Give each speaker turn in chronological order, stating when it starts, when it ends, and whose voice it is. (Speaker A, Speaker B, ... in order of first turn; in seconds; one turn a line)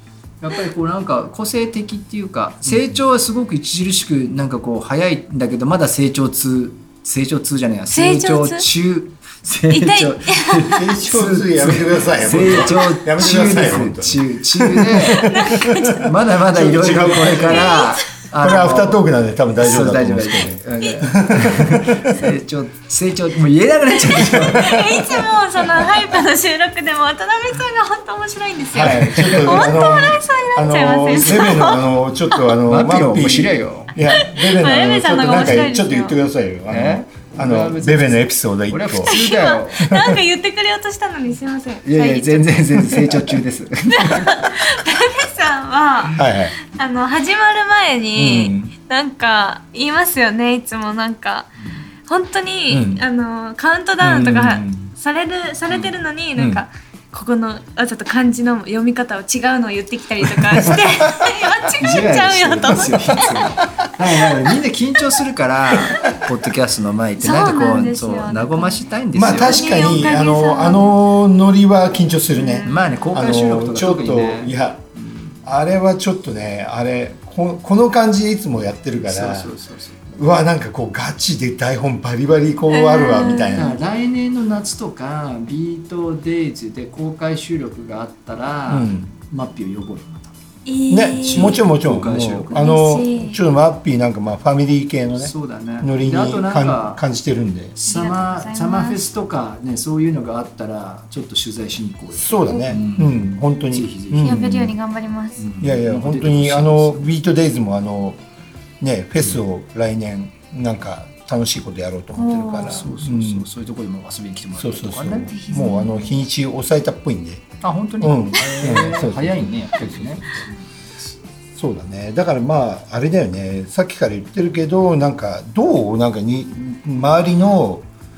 Speaker A: 0.4-15.3
Speaker B: 2.6-3.0
Speaker C: 7.9-8.7
Speaker C: 9.7-10.9
Speaker B: 10.7-15.8
Speaker C: 15.1-16.1
Speaker A: 15.9-19.0
Speaker B: 16.5-17.8
Speaker C: 17.4-18.1
Speaker B: 18.4-22.2
Speaker A: 19.6-24.9
Speaker C: 24.5-32.5
Speaker B: 24.6-25.2
Speaker B: 28.7-39.1
Speaker A: 28.8-29.6
Speaker A: 31.1-31.5
Speaker A: 32.6-33.9
Speaker C: 34.0-36.2
Speaker A: 36.7-39.9
Speaker C: 39.0-43.0
Speaker A: 41.8-44.5
Speaker C: 44.0-51.5
Speaker B: 46.2-46.6
Speaker B: 48.1-48.7
Speaker A: 51.6-51.9
Speaker C: 52.1-63.5
Speaker B: 52.7-53.0
Speaker B: 54.0-54.9
Speaker A: 55.7-56.0
Speaker B: 56.4-56.6
Speaker A: 61.8-69.9
Speaker C: 67.2-70.9
Speaker B: 69.1-74.8
Speaker C: 72.4-72.8
Speaker A: 72.7-75.4
Speaker B: 75.4-79.5
Speaker A: 79.0-80.2
Speaker B: 80.2-83.8
Speaker C: 82.7-83.8
Speaker A: 83.5-90.3
Speaker B: 88.7-89.1
Speaker C: 90.7-91.6
Speaker B: 90.9-97.8
Speaker A: 91.3-92.7
Speaker C: 92.5-93.4
Speaker A: 95.2-97.0
Speaker A: 97.8-104.7
Speaker C: 97.8-99.0
Speaker B: 102.1-104.7
Speaker C: 102.5-102.8
Speaker C: 104.2-105.4
Speaker A: 105.4-107.1
Speaker B: 105.6-108.2
Speaker B: 108.8-113.5
Speaker C: 112.1-112.8
Speaker A: 112.6-115.4
Speaker B: 114.5-117.5
Speaker C: 115.3-116.2
Speaker A: 117.6-121.1
Speaker B: 118.0-120.4
Speaker B: 121.5-127.8